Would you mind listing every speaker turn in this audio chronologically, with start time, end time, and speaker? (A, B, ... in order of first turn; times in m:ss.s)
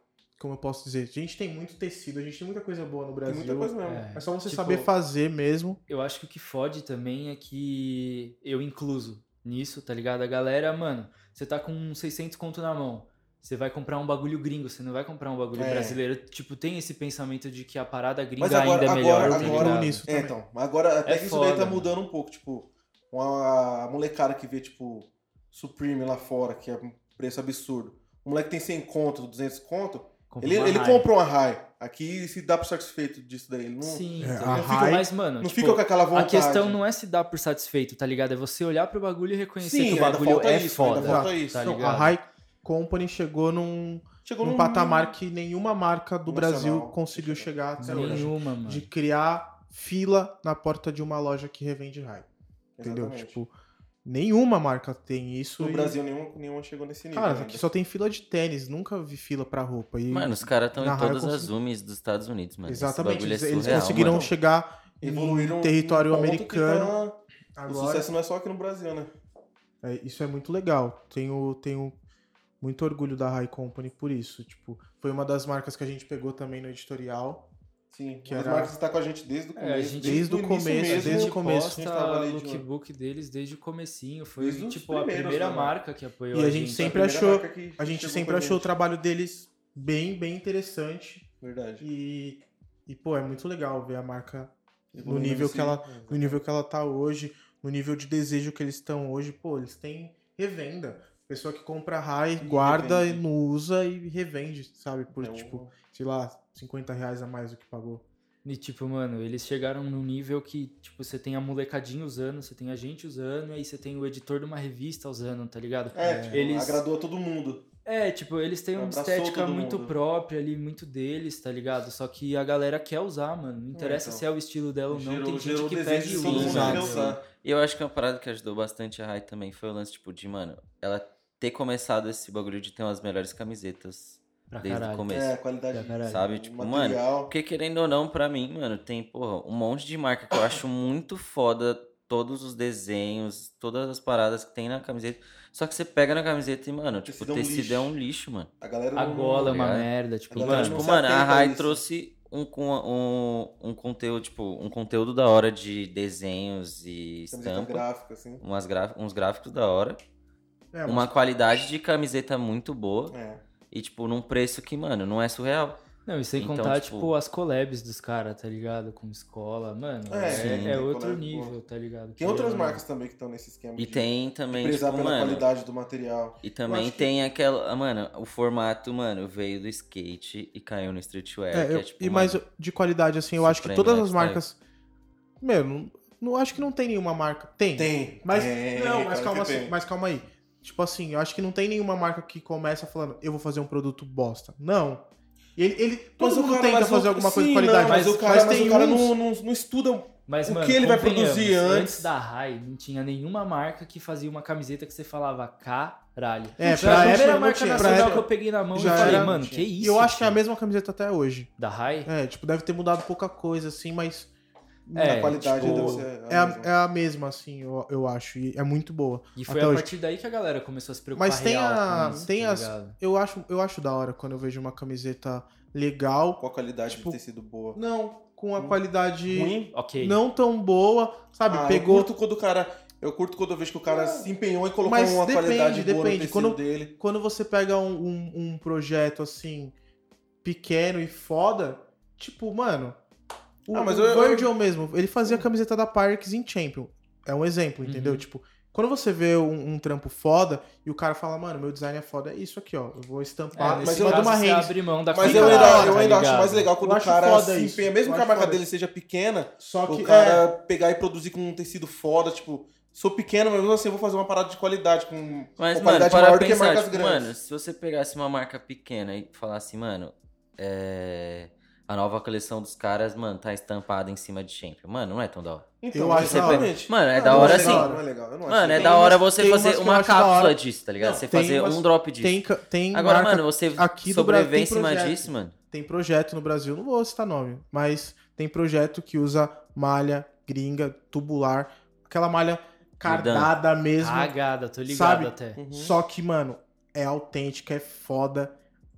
0:00.4-0:05.8 A
0:03.2-0:04.1 B
0:03.8-0:04.9 C
0:05.9-0:20.0 C
0:15.5-0:16.0 B
0:18.4-0:36.8 B
0:19.2-0:20.4 A
0:21.0-0:21.9 C
0:30.3-0:31.1 C
0:33.8-0:42.1 C
0:34.2-0:35.1 A
0:39.6-0:41.6 B
0:41.0-0:52.3 A
0:44.2-0:45.1 B
0:46.2-0:48.3 B
0:47.8-0:48.9 C
0:52.8-0:53.4 B
0:52.8-0:53.5 A
0:54.0-0:56.0 A
0:55.6-0:57.7 B
0:57.1-1:01.5 A
1:00.1-1:04.3 D
1:02.6-1:06.9 A
1:03.6-1:04.3 B
1:05.0-1:09.1 B
1:07.6-1:08.1 A
1:09.8-1:12.0 A
1:12.6-1:17.5 A
1:17.9-1:22.6 B
1:18.2-1:18.7 A
1:19.6-1:20.3 C
1:20.0-1:21.8 A
1:20.8-1:27.0 C
1:24.4-1:25.8 B
1:26.3-1:31.3 A
1:26.7-1:28.7 B
1:31.4-1:31.8 B
1:31.8-1:48.0 A
1:34.9-1:36.4 B
1:42.4-1:43.2 B
1:45.2-1:45.7 B
1:48.4-1:56.8 C
1:55.9-1:57.6 B
1:56.0-1:56.4 A
1:57.8-2:07.2 C
1:58.7-1:59.9 B
2:03.7-2:04.2 B
2:04.9-2:07.2 B
2:06.2-2:07.0 A
2:06.3-2:15.4 D
2:14.5-2:15.1 C
2:15.1-2:17.3 B
2:15.7-2:16.2 C
2:16.0-2:28.5 D
2:27.0-2:27.9 B
2:28.6-2:29.6 B
2:28.9-2:30.8 C
2:29.4-2:37.8 D
2:30.3-2:31.8 B
2:37.3-2:38.4 B
2:38.4-2:40.0 D
2:40.7-2:41.2 A
2:40.8-2:43.2 D
2:43.1-2:43.4 B
2:43.7-2:45.8 D
2:46.0-2:52.8 C
2:46.4-2:47.1 D
2:50.1-2:51.6 B
2:50.3-2:50.8 D
2:52.2-2:57.1 B
2:53.8-2:55.5 D
2:56.4-3:02.4 D
3:01.5-3:04.6 A
3:03.4-3:04.4 D
3:05.4-3:19.2 A
3:07.8-3:09.7 B
3:16.2-3:22.1 B
3:17.8-3:18.6 C
3:20.3-3:30.4 C
3:26.6-3:31.5 A
3:26.6-3:29.7 B
3:31.6-3:32.1 C
3:32.0-3:34.3 A
3:34.9-3:39.9 A
3:34.9-3:36.1 C
3:35.0-3:36.7 B
3:39.4-3:43.0 C
3:41.1-3:47.2 A
3:46.4-3:47.8 B
3:47.7-3:52.1 A
3:48.6-3:49.7 B
3:49.7-3:50.2 C
3:51.5-3:56.9 B
3:53.9-3:54.3 A
3:54.8-3:59.7 A
4:00.4-4:03.0 A
4:03.6-4:18.6 A
4:03.7-4:04.5 B
4:07.8-4:08.2 C
4:13.5-4:16.7 C
4:13.7-4:27.3 B
4:19.6-4:20.4 A
4:25.6-4:37.9 D
4:35.8-4:39.2 B
4:35.9-4:38.0 A
4:38.4-4:42.4 D
4:38.7-4:54.3 A
4:42.9-4:45.5 D
4:53.0-4:53.5 D
4:54.0-4:55.6 C
4:54.8-4:58.5 A
4:55.6-4:56.0 B